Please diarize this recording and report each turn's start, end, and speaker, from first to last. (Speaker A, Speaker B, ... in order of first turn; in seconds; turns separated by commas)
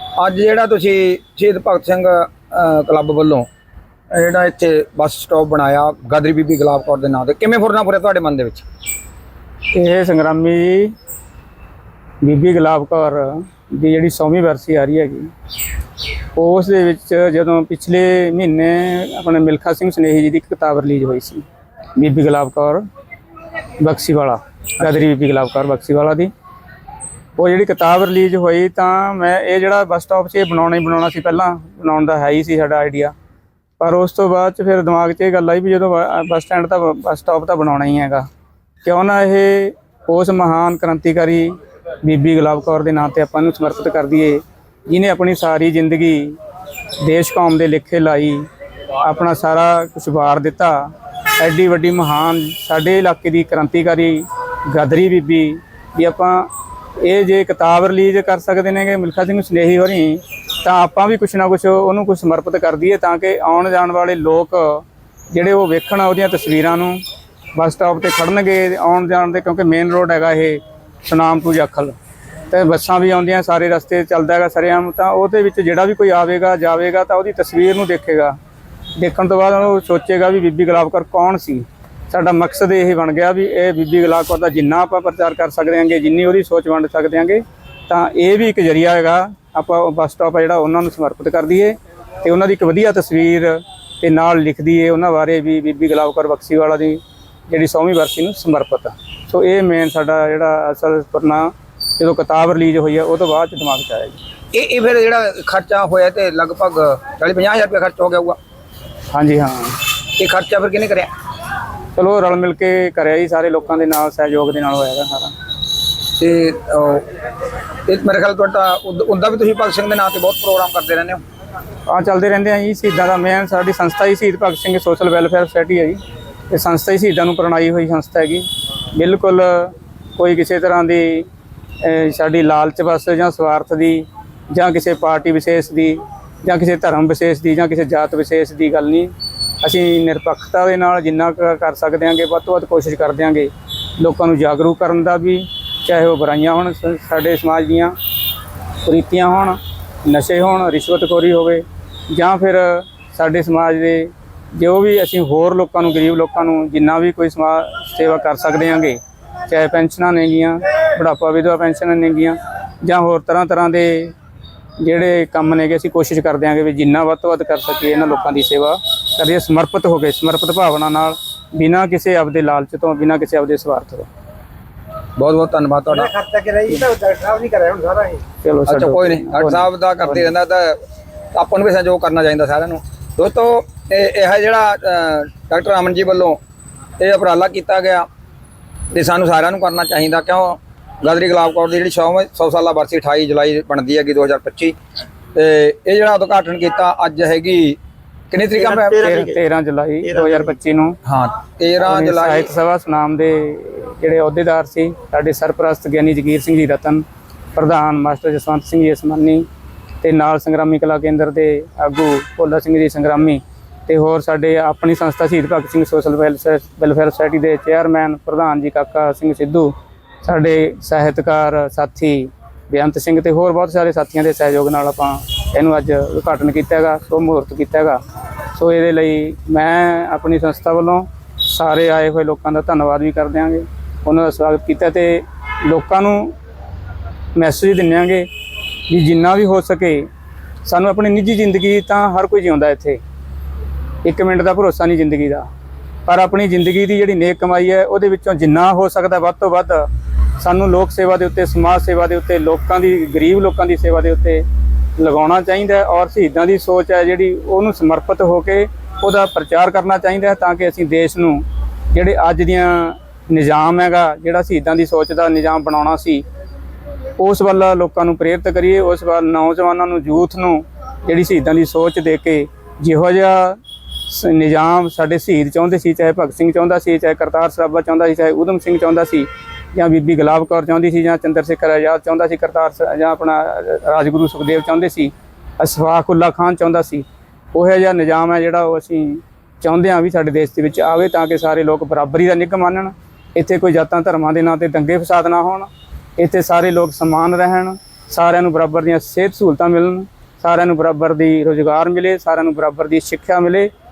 Speaker A: 0.2-3.5, Speaker A: 4.1-8.6, Speaker B: 9.7-10.9, Speaker B: 12.2-15.3, Speaker B: 16.3-21.4, Speaker B: 21.9-22.8, Speaker B: 23.8-26.3, Speaker B: 27.4-33.1, Speaker B: 33.8-38.2, Speaker B: 38.8-46.4, Speaker B: 47.0-48.5, Speaker B: 49.0-56.5, Speaker B: 57.0-67.0, Speaker B: 67.5-71.9, Speaker B: 72.5-78.3, Speaker B: 79.0-104.2, Speaker A: 104.5-108.4, Speaker B: 109.1-109.8, Speaker A: 110.2-111.1, Speaker B: 111.9-115.3, Speaker A: 116.2-117.1, Speaker A: 117.8-121.2, Speaker B: 121.9-131.2, Speaker B: 131.8-139.1, Speaker B: 139.6-147.9, Speaker B: 148.8-164.1, Speaker B: 164.8-174.1, Speaker A: 175.2-176.2, Speaker C: 176.2-178.2, Speaker B: 178.4-180.3, Speaker A: 178.7-180.8, Speaker A: 181.3-186.4, Speaker A: 187.0-188.1, Speaker A: 188.9-194.8, Speaker A: 195.3-197.8, Speaker A: 198.3-199.1, Speaker B: 198.9-201.0, Speaker A: 201.0-202.5, Speaker B: 201.8-207.0, Speaker B: 207.5-209.4, Speaker B: 210.0-228.0, Speaker B: 228.5-236.3, Speaker B: 237.3-238.3, Speaker B: 238.9-240.1, Speaker B: 240.6-243.0, Speaker B: 244.0-245.5, Speaker B: 246.1-249.9, Speaker B: 250.4-254.4, Speaker B: 255.0-266.2, Speaker B: 267.2-303.7